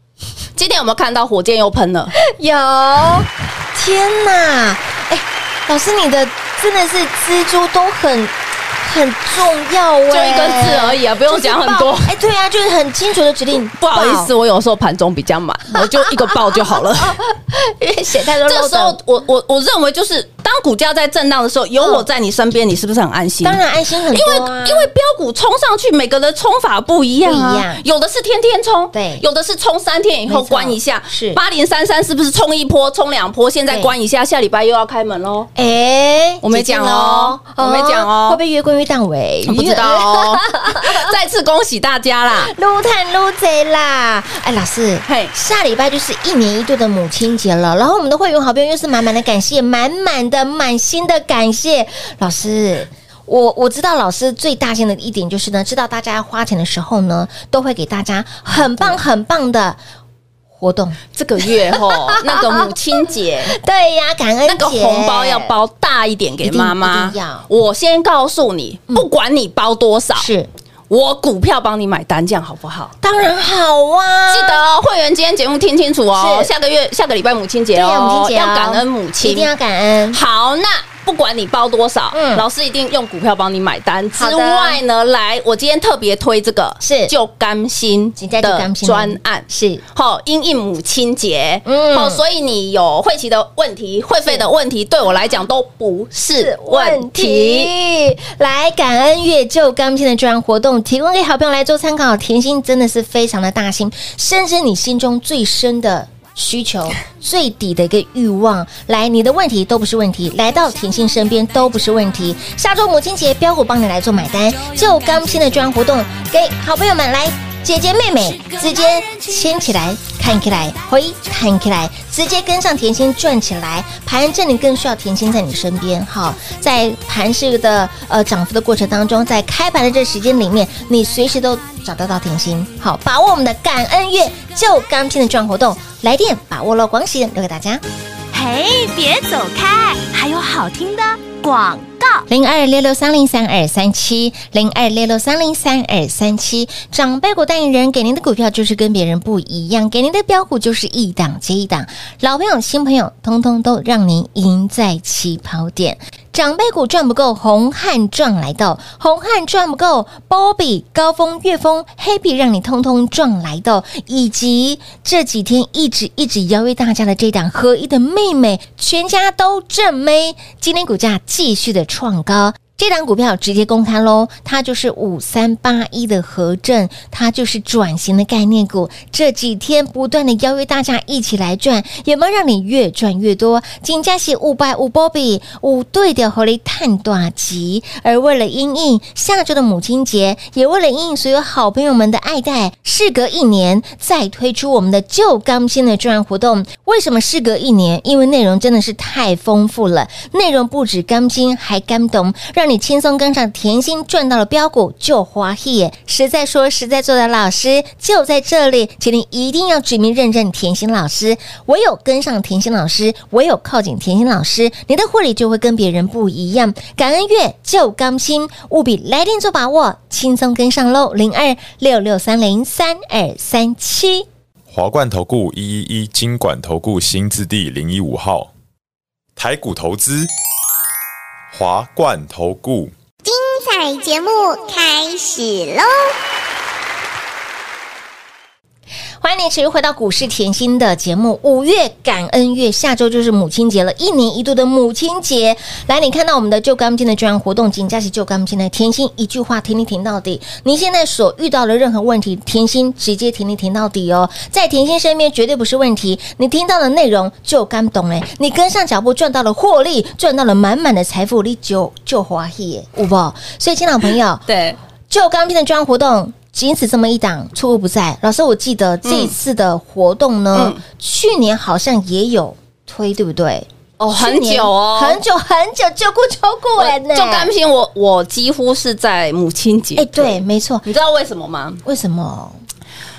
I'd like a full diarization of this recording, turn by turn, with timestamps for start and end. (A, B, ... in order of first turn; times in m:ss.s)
0:00.6-0:02.1 A
0:02.2-0:14.3 B
0:10.1-0:12.1 A
0:13.8-0:17.2 A
0:15.7-0:19.0 B
0:18.4-0:23.6 A
0:21.8-0:22.0 B
0:23.4-0:24.9 B
0:24.1-0:35.5 A
0:27.2-0:27.8 B
0:28.9-0:29.2 B
0:30.3-0:31.4 B
0:35.5-0:41.1 B
0:36.4-0:38.4 A
0:39.4-0:42.5 A
0:42.4-0:59.8 B
0:45.1-0:45.3 A
0:58.5-0:59.0 A
1:00.5-1:02.7 B
1:01.1-1:03.6 A
1:03.4-1:05.5 B
1:04.5-1:10.3 A
1:06.4-1:07.5 B
1:10.2-1:10.5 B
1:10.9-1:12.9 A
1:13.0-1:14.6 B
1:14.3-1:19.5 A
1:16.1-1:16.5 B
1:17.7-1:20.2 B
1:20.1-1:37.7 A
1:22.1-1:22.4 B
1:24.1-1:24.8 B
1:26.8-1:27.1 B
1:28.2-1:29.8 B
1:31.6-1:32.2 B
1:36.4-2:17.8 B
2:18.3-2:22.2 C
2:22.3-3:44.2 B
3:44.7-3:48.5 D
3:49.4-3:50.3 D
3:51.5-3:52.9 D
3:53.2-3:56.1 E
3:59.2-4:24.4 B
4:24.5-4:24.8 A
4:25.1-4:37.5 B
4:29.0-4:29.3 A
4:30.5-4:30.8 A
4:34.1-4:35.2 A
4:36.8-4:41.8 A
4:40.0-4:40.8 B
4:41.8-4:42.6 B